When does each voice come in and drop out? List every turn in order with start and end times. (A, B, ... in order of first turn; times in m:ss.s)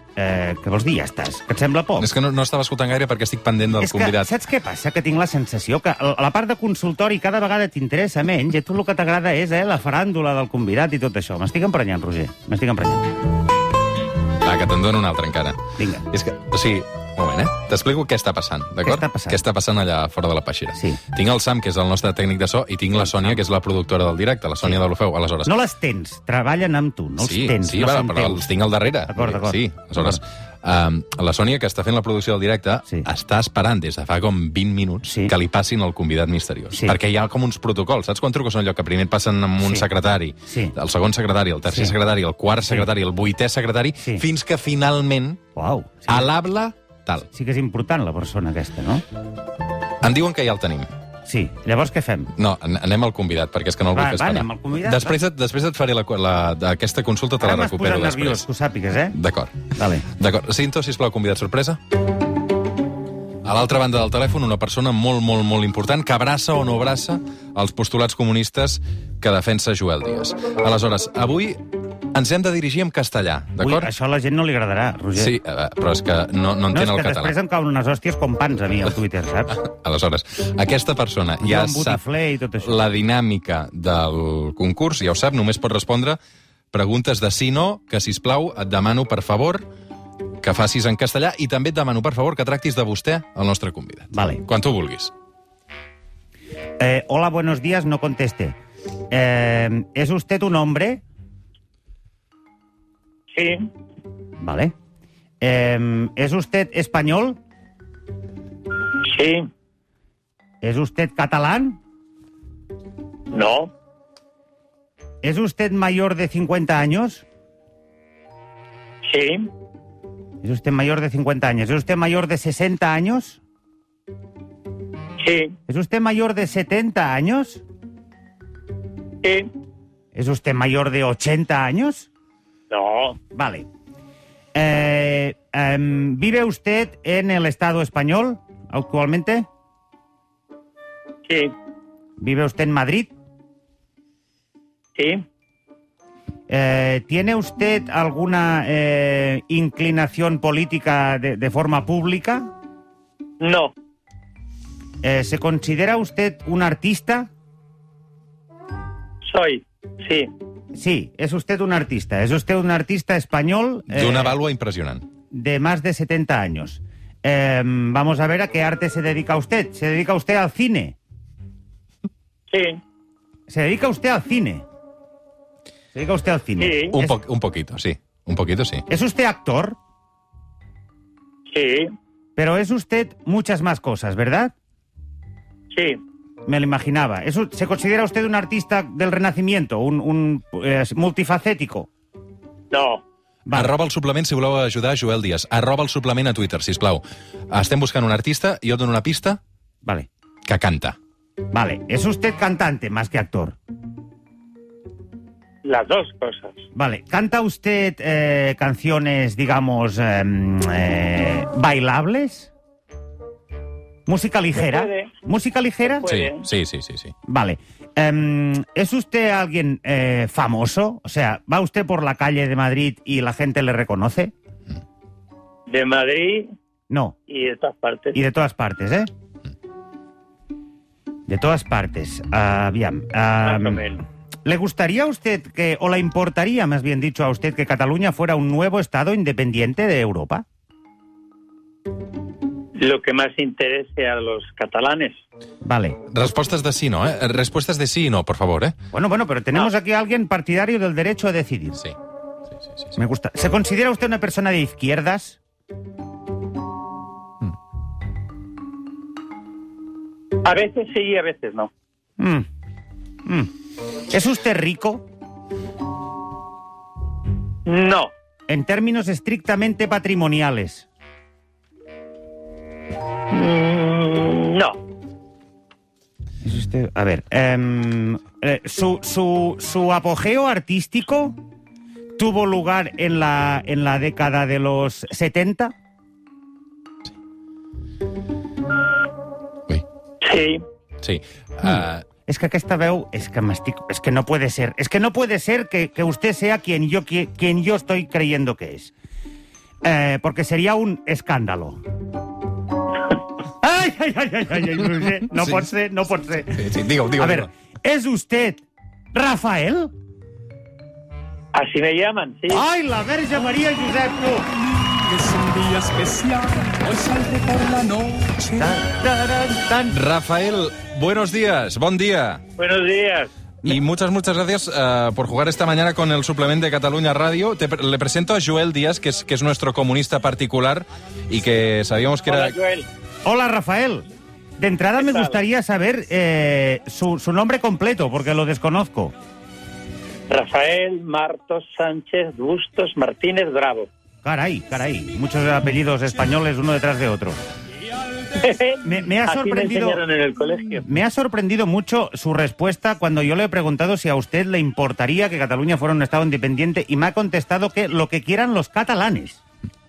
0:00.2-0:02.1 A
0:02.0-0:04.3 B
0:03.8-0:13.2 A
0:14.4-0:25.5 B
0:15.8-0:16.1 A
0:18.8-0:19.4 A
0:20.7-0:21.0 A
0:25.4-0:28.4 A
0:27.2-0:45.4 B
0:29.1-0:30.2 A
0:35.0-0:35.3 A
0:39.6-0:39.9 A
0:40.5-0:40.7 A
0:41.7-0:41.9 A
0:45.6-0:46.3 A
0:46.1-0:47.3 B
0:47.3-0:49.0 A
0:50.0-0:50.9 B
0:51.2-0:52.3 A
0:52.4-0:58.4 B
0:53.9-0:55.2 A
0:57.4-0:59.2 A
0:59.1-1:01.8 B
0:59.8-1:00.0 A
1:03.4-1:11.6 B
1:12.1-1:13.9 B
1:13.6-1:15.4 A
1:15.2-1:17.3 B
1:16.7-1:19.6 A
1:19.6-1:22.0 B
1:21.4-1:22.8 A
1:22.6-1:26.2 B
1:26.7-1:29.6 B
1:30.4-1:35.1 B
1:34.1-1:34.4 A
1:36.8-1:38.6 A
1:39.1-1:41.0 A
1:43.3-1:43.7 C
1:44.4-1:44.7 A
1:45.4-1:47.4 A
1:49.0-1:49.5 C
1:50.6-1:51.8 A
1:53.3-1:53.7 C
1:55.2-1:57.2 A
1:59.0-1:59.5 C
2:00.4-2:03.4 A
2:05.2-2:05.6 C
2:05.7-2:07.6 A
2:09.2-2:09.5 C
2:10.1-2:12.1 A
2:12.7-2:13.2 C
2:13.3-2:13.7 A
2:14.5-2:19.5 A
2:21.3-2:21.5 C
2:22.2-2:23.1 A
2:25.0-2:25.2 C
2:26.5-2:32.5 A
2:33.4-2:33.7 C
2:35.0-2:37.3 A
2:39.2-2:40.3 C
2:40.7-2:44.4 A
2:43.9-2:45.0 B
2:45.3-2:51.0 A
2:52.5-2:52.8 C
2:53.5-2:54.6 A
2:55.9-2:57.2 A
2:56.6-2:57.0 C
2:56.9-2:58.8 B
2:58.9-2:59.8 A
3:01.5-3:01.9 C
3:02.4-3:04.5 A
3:05.7-3:06.0 C
3:06.4-3:11.9 A
3:12.7-3:13.0 C
3:13.4-3:13.7 A
3:13.5-3:19.4 B
3:20.4-3:21.0 B
3:21.5-3:23.6 A
3:25.6-3:26.6 C
3:26.7-3:32.5 A
3:34.1-3:36.1 A
3:34.5-3:35.1 C
3:36.0-3:36.5 C
3:36.0-3:37.1 B
3:37.2-3:44.3 A
3:45.7-3:46.5 C
3:46.9-3:47.2 A
3:47.3-3:48.2 C
3:48.1-3:49.1 A
3:51.3-3:53.8 A
3:53.4-3:54.0 C
3:54.4-4:00.4 A
4:02.8-4:05.2 C
4:05.6-4:06.0 A
4:06.1-4:08.8 B
4:08.9-4:11.8 A
4:13.0-4:15.4 A
4:20.4-4:21.7 C
4:22.2-4:22.4 A
4:23.2-4:23.5 A
4:24.1-4:25.0 A
4:27.6-4:28.1 C
4:28.5-4:30.8 A
4:33.3-4:34.8 C
4:36.4-4:41.4 A
4:42.2-4:45.7 A
4:50.2-4:50.6 C
4:51.0-4:52.0 B
4:51.6-4:58.9 A
4:59.8-5:01.8 A
5:03.6-5:06.6 A
5:06.5-5:07.5 B
5:07.2-5:08.6 A
5:09.1-5:09.9 A
5:11.5-5:12.6 C
5:12.5-5:14.5 A
5:14.6-5:18.8 D
5:18.6-5:20.0 A
5:19.9-5:22.4 B
5:22.6-5:23.3 C
5:23.6-5:32.5 B
5:32.3-5:32.9 C
5:33.2-5:34.0 A
5:34.6-5:39.1 A
5:35.0-5:35.4 C
5:40.3-5:43.9 C
5:44.2-5:47.4 A
5:48.4-5:50.8 C
5:48.8-5:50.0 A
5:50.8-5:59.4 A